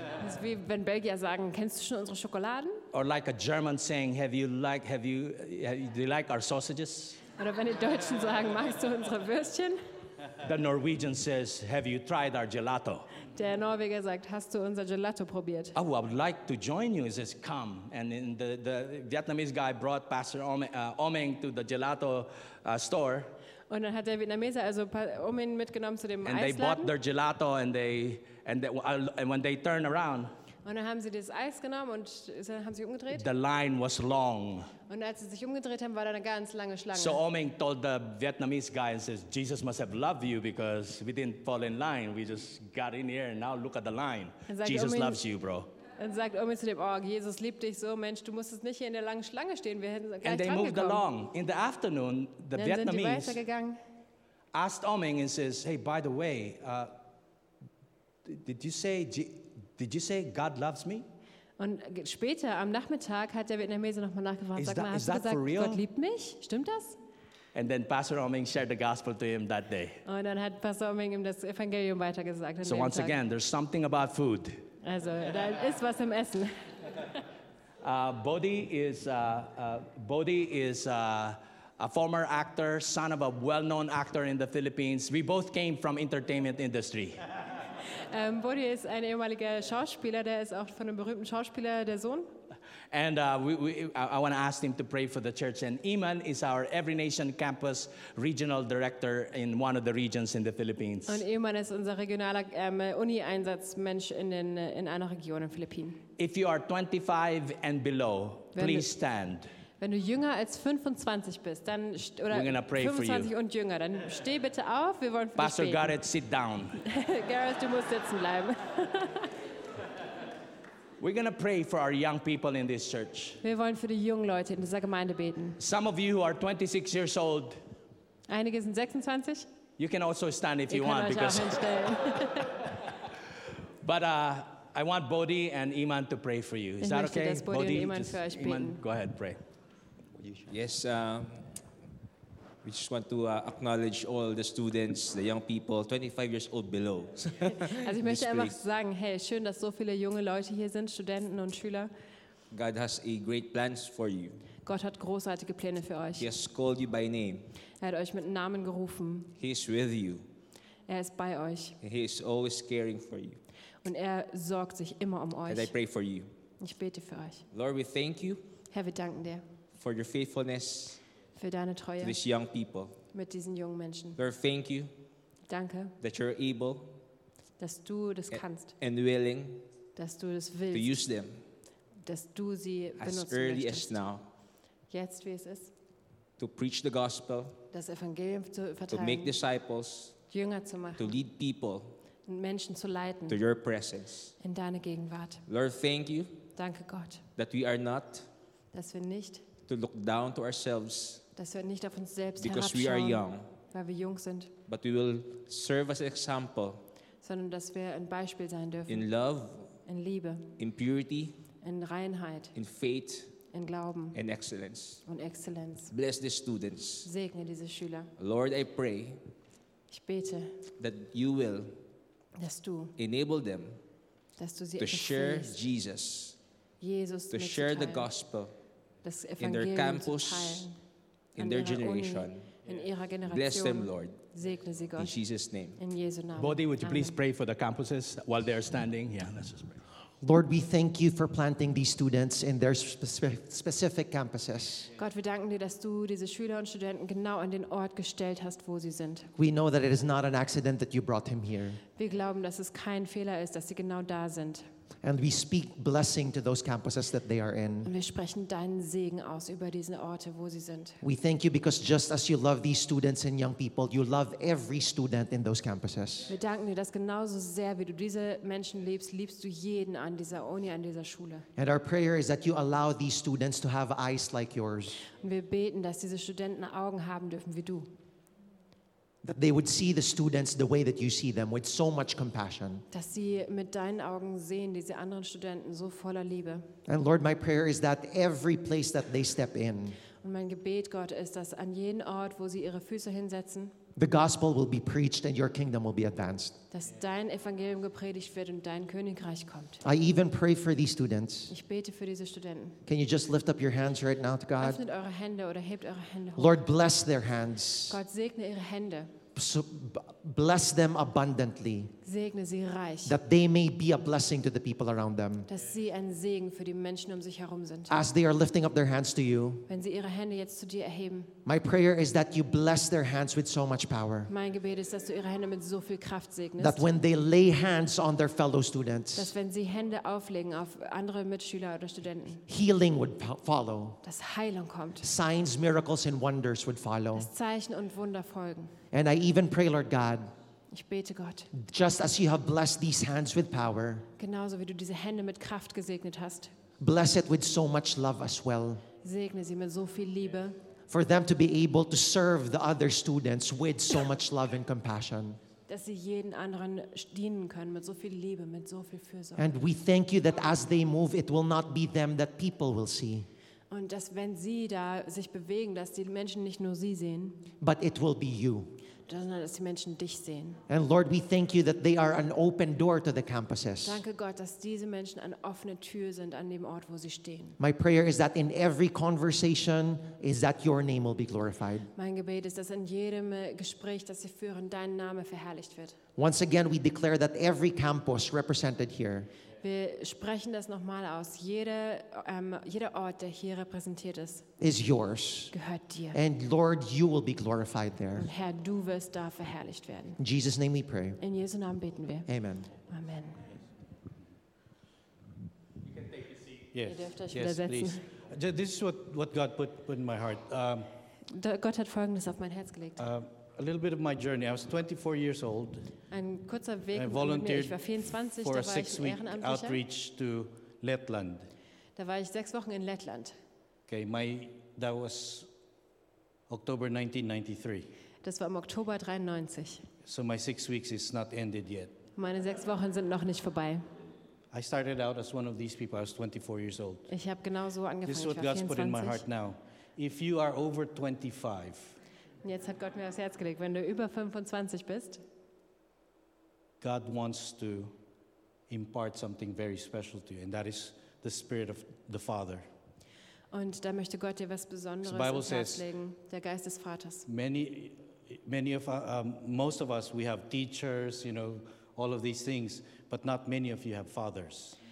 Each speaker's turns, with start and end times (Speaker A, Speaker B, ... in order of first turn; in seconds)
Speaker A: 0.2-2.8, 7.4-9.8, 13.3-15.7, 23.7-26.9, 30.6-33.2, 34.9-37.2, 44.5-45.2, 46.0-51.0, 52.5-53.8, 61.6-67.0, 70.0-73.2, 74.8-77.2, 87.9-92.3, 101.1-106.0, 108.5-108.9, 109.8-116.0, 116.8-119.3, 123.4-125.6, 128.3-129.5, 130.7-132.8, 136.8-138.8, 147.6-151.9, 154.6-156.3, 157.8-159.3, 160.9-161.8, 163.8-165.7, 166.6-167.4, 168.7-169.4, 171.3-172.2, 173.1-174.2, 175.5-176.0, 177.6-178.7, 179.9-180.9, 182.0-183.9, 184.9-185.7, 187.7-189.3, 190.3-191.2, 192.3-193.4, 194.4-195.4, 196.6-197.2, 198.7-199.5, 201.3-204.5, 207.2-209.1, 209.8-210.5, 211.6-212.5, 213.5-214.2, 215.1-215.9, 217.0-218.1, 219.9-220.6, 222.4-222.9, 224.4-225.6, 226.8-228.1, 229.0-230.8, 231.4-235.1, 235.8-237.2, 245.0-249.3, 251.9-254.7, 257.8-261.0, 266.3-271.5, 275.1-277.9, 282.9-286.7, 290.2-293.7, 296.7-299.8, 301.5-302.8, 304.6-306.6, 307.9-309.1, 312.0-313.2, 315.4-318.0, 319.7-321.4, 324.3-326.8, 329.1-332.4, 334.0-335.1, 337.1-338.7, 340.7-341.5, 344.2-346.5, 349.0-350.6, 355.7-359.5, 363.7-367.5, 369.1-370.6, 373.8-377.6, 381.9-386.0, 389.6-394.5, 395.5-396.2, 398.2-400.2, 401.2-402.3, 402.9-403.4, 406.9-408.1, 411.3-413.1, 416.1-419.8, 421.9-423.4, 428.2-429.9, 432.2-433.8, 437.1-439.2, 442.4-445.2, 453.5-457.2
Speaker B: 2.9-7.2, 10.4-13.1, 15.7-23.3, 26.2-30.3, 33.1-34.7, 36.9-45.7, 50.2-53.4, 54.5-56.9, 58.2-61.1, 64.5-65.8, 67.5-70.0, 72.6-74.6, 77.8-87.2, 92.9-101.2, 106.2-109.5, 112.3-113.3, 115.4-116.8, 121.0-123.4, 125.6-127.6, 129.8-131.8, 133.8-139.4, 236.4-239.8
Speaker C: 140.4-141.4, 142.6-148.6, 152.5-154.4, 156.2-157.5, 159.3-160.2, 161.8-163.4, 165.5-166.3, 167.5-168.4, 169.8-171.0, 172.0-173.0, 174.2-174.9, 176.0-177.0, 178.3-179.7, 180.7-181.4, 183.0-184.3, 186.4-187.6, 188.9-190.2, 191.0-191.9, 193.3-194.3, 195.5-196.4, 197.3-198.3, 199.7-201.2, 202.4-203.5, 204.7-206.8, 208.9-209.7, 210.6-211.4, 212.5-213.3, 214.1-215.0, 215.9-217.1, 218.2-219.2, 220.8-221.8, 223.0-223.8, 224.8-226.4, 227.3-228.5, 229.4-230.7, 231.3-232.5, 233.3-234.2, 235.0-235.8
Speaker D: 240.2-244.9, 249.4-251.8, 255.0-257.9, 261.0-266.3, 271.6-275.0, 279.2-282.8, 286.9-290.0, 294.0-296.5, 299.8-301.5, 302.9-304.8, 306.4-308.0, 309.3-311.9, 313.0-315.5, 317.9-319.6, 321.4-324.3, 326.6-329.3, 332.5-334.0, 335.0-337.3, 338.9-340.3, 341.5-344.1, 346.8-348.8, 350.9-355.4, 359.4-363.3, 367.6-368.8, 370.7-374.0, 377.6-381.9, 386.2-389.3, 394.6-395.5, 396.1-398.3, 400.2-401.2, 402.3-402.7
Speaker E: 406.7-410.9, 413.0-415.9, 416.9-417.8, 418.4-421.5, 423.9-425.5, 426.5-427.9, 430.0-432.0, 434.5-437.1, 438.1-441.9, 446.8-447.9, 448.7-452.6, 455.0-455.9, 457.3-464.8